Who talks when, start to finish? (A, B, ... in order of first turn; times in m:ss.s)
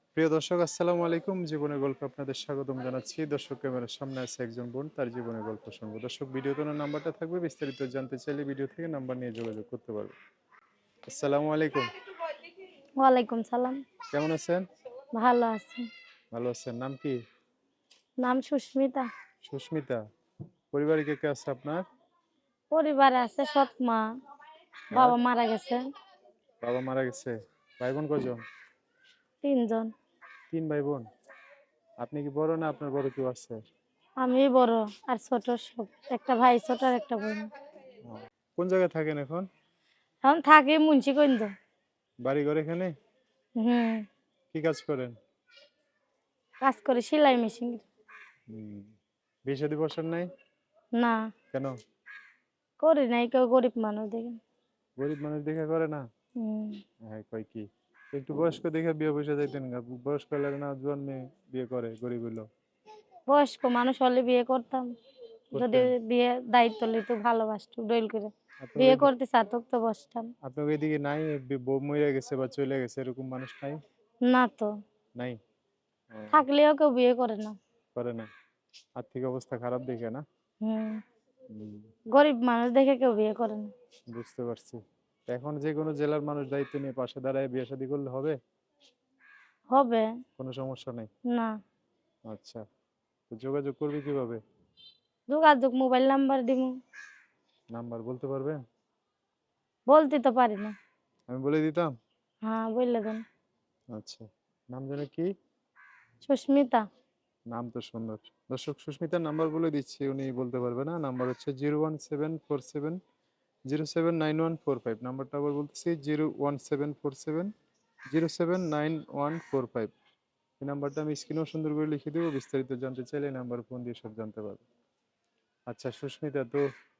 0:00.2-0:10.1 A
0:11.1-0:11.9 A
0:13.0-0:13.8 B
0:14.1-0:14.6 A
0:15.1-0:15.8 B
0:16.3-0:17.2 A
0:18.2-0:19.1 B
0:19.4-0:20.0 A
0:20.7-0:21.8 A
0:22.7-0:24.0 B
0:24.9-0:25.8 B
0:26.6-0:28.4 A
0:29.4-0:29.9 B
0:30.5-0:31.0 A
0:32.0-0:33.6 A
0:34.2-0:37.5 B
0:38.1-0:39.5 A
0:40.2-0:41.5 B
0:42.2-0:42.9 A
0:43.6-0:44.0 B
0:44.5-0:45.1 A
0:46.6-0:47.9 B
0:48.5-0:48.9 A
0:49.5-0:50.3 A
0:52.8-0:54.4 B
0:55.0-0:56.0 A
0:56.4-0:56.8 B
0:57.1-1:02.4 A
1:03.3-1:04.9 B
1:05.5-1:05.9 A
1:05.5-1:10.3 B
1:08.6-1:09.1 A
1:10.4-1:13.8 A
1:14.3-1:14.7 B
1:16.1-1:16.5 A
1:16.3-1:17.6 B
1:18.0-1:18.3 A
1:19.0-1:20.2 A
1:20.6-1:21.0 B
1:21.5-1:21.8 A
1:22.1-1:23.7 B
1:24.1-1:28.4 A
1:29.7-1:30.1 B
1:30.4-1:31.1 A
1:32.3-1:32.6 A
1:33.3-1:34.4 A
1:35.3-1:36.7 B
1:37.7-1:38.6 A
1:39.9-1:40.8 B
1:41.3-1:41.9 A
1:42.4-1:43.2 B
1:43.9-1:45.3 A
1:46.2-1:46.8 B
1:47.5-1:53.0 A
1:53.7-1:57.5 A
1:58.1-1:59.9 A
2:00.6-2:04.6 A
2:05.7-2:06.6 A